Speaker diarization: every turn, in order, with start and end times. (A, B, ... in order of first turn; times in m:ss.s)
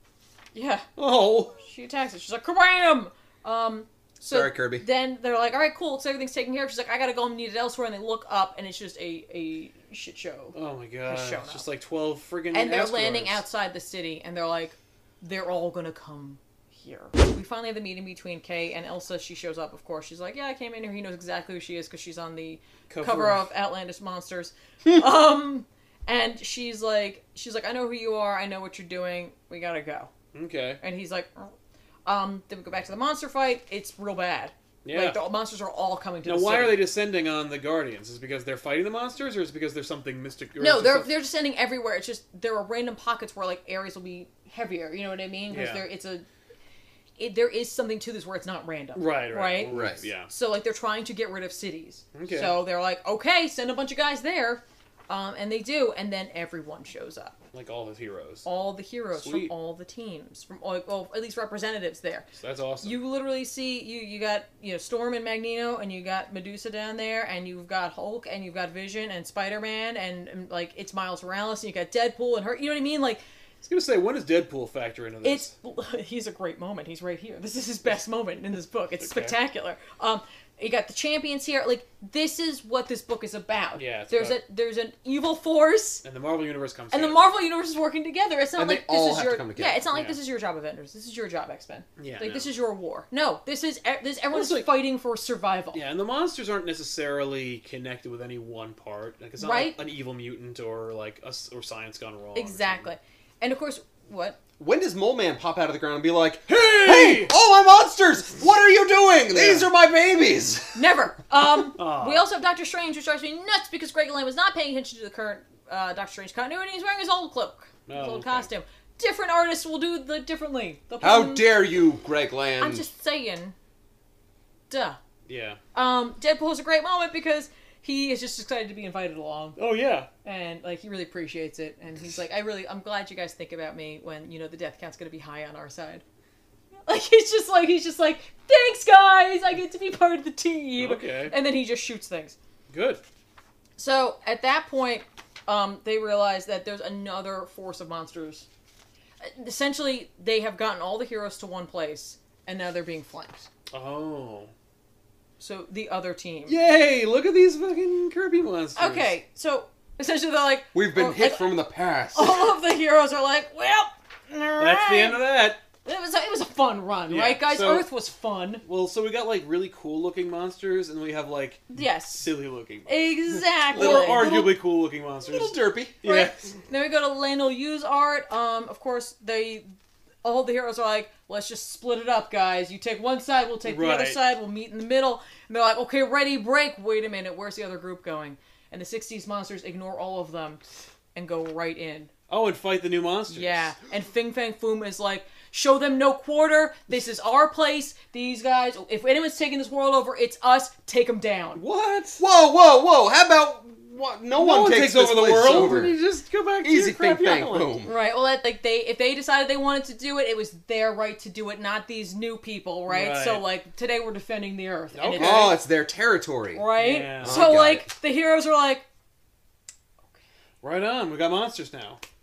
0:00.5-0:00.9 A
0:01.0-0:01.6 B
0:01.6-0:10.5 A
0:04.3-0:04.8 C
0:10.5-0:13.4 B
0:11.0-0:11.7 A
0:12.5-0:30.1 A
0:22.9-0:23.4 B
0:30.3-0:30.8 B
0:30.8-0:31.5 A
0:32.0-0:36.8 A
0:34.8-0:35.2 B
0:36.2-0:41.1 B
0:40.6-0:46.2 A
0:45.5-0:45.8 B
0:47.2-0:49.7 A
0:48.9-0:50.3 B
0:49.7-0:50.0 C
0:50.3-0:57.4 A
0:52.1-0:52.6 B
0:57.5-0:58.4 B
0:58.4-1:02.3 A
0:59.1-0:59.5 B
1:02.4-1:03.0 B
1:02.8-1:13.2 A
1:13.6-1:15.5 B
1:15.2-1:26.0 A
1:19.0-1:19.4 B
1:23.8-1:24.4 B
1:26.0-1:27.2 B
1:26.9-1:35.8 A
1:28.6-1:29.8 C
1:29.9-1:30.2 B
1:32.0-1:32.5 B
1:34.3-1:34.7 B
1:35.7-1:42.9 B
1:39.4-1:39.8 A
1:42.3-1:44.4 A
1:44.6-1:50.9 C
1:46.5-1:47.3 B
1:49.3-1:49.7 B
1:50.7-2:01.5 A
1:51.8-1:52.2 B
1:57.9-1:58.5 B
2:01.0-2:02.8 C
2:02.6-2:03.6 A
2:04.7-2:05.0 A
2:05.3-2:05.6 B
2:05.7-2:09.6 A
2:09.6-2:10.1 B
2:10.2-2:16.0 A
2:16.9-2:22.4 A
2:20.8-2:21.3 B
2:22.7-2:23.0 B
2:23.8-2:28.4 A
2:29.2-2:33.5 A
2:33.7-2:34.5 B
2:35.4-2:36.6 A
2:36.5-2:39.1 B
2:38.8-2:41.6 A
2:40.7-2:42.5 C
2:42.1-2:45.2 A
2:44.6-2:45.6 B
2:45.8-2:48.6 A
2:47.1-2:47.9 B
2:48.6-2:56.5 B
2:51.7-2:52.3 A
2:52.9-2:54.3 A
2:53.7-2:54.6 C
2:55.2-2:56.0 C
2:56.0-2:59.6 A
3:00.2-3:10.6 A
3:03.6-3:04.2 B
3:11.1-3:12.1 A
3:12.3-3:13.7 B
3:13.3-3:21.6 A
3:21.6-3:22.2 B
3:22.2-3:26.0 C
3:24.3-3:27.8 B
3:26.6-3:27.9 C
3:27.8-3:35.6 A
3:32.9-3:33.4 B
3:34.9-3:35.5 B
3:35.2-3:36.7 C
3:36.5-3:38.8 A
3:36.8-3:37.5 B
3:37.2-3:37.9 C
3:40.6-3:42.0 B